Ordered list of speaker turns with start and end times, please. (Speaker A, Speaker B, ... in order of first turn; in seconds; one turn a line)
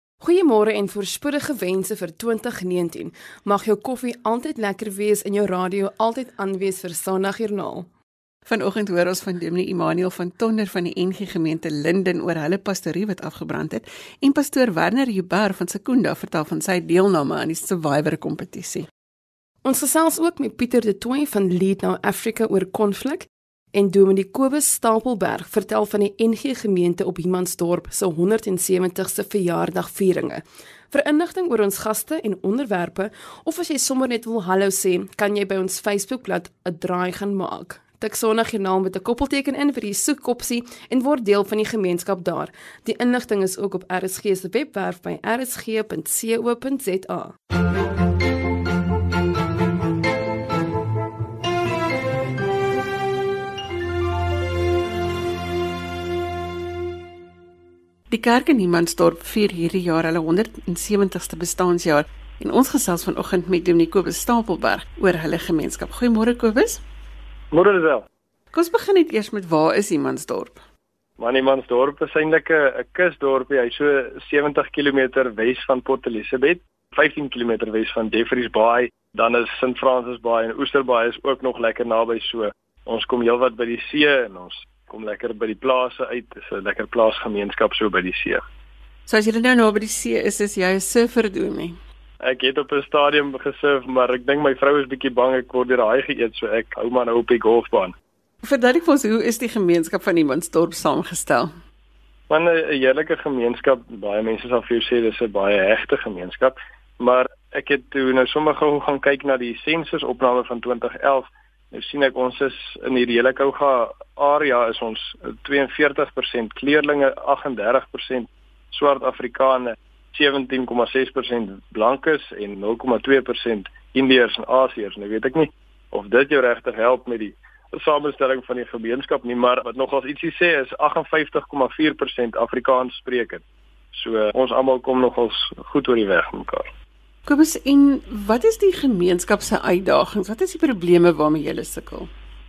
Speaker A: 0.2-7.9
Speaker B: 8.5-18.9
Speaker A: 19.6-47.3
Speaker B: 58.1-66.8
Speaker C: 67.5-68.0
Speaker B: 68.5-70.6
Speaker C: 71.2-88.4
Speaker B: 89.1-91.8
Speaker C: 92.2-98.0
Speaker B: 98.4-101.5
Speaker C: 102.3-136.7
Speaker B: 137.3-142.1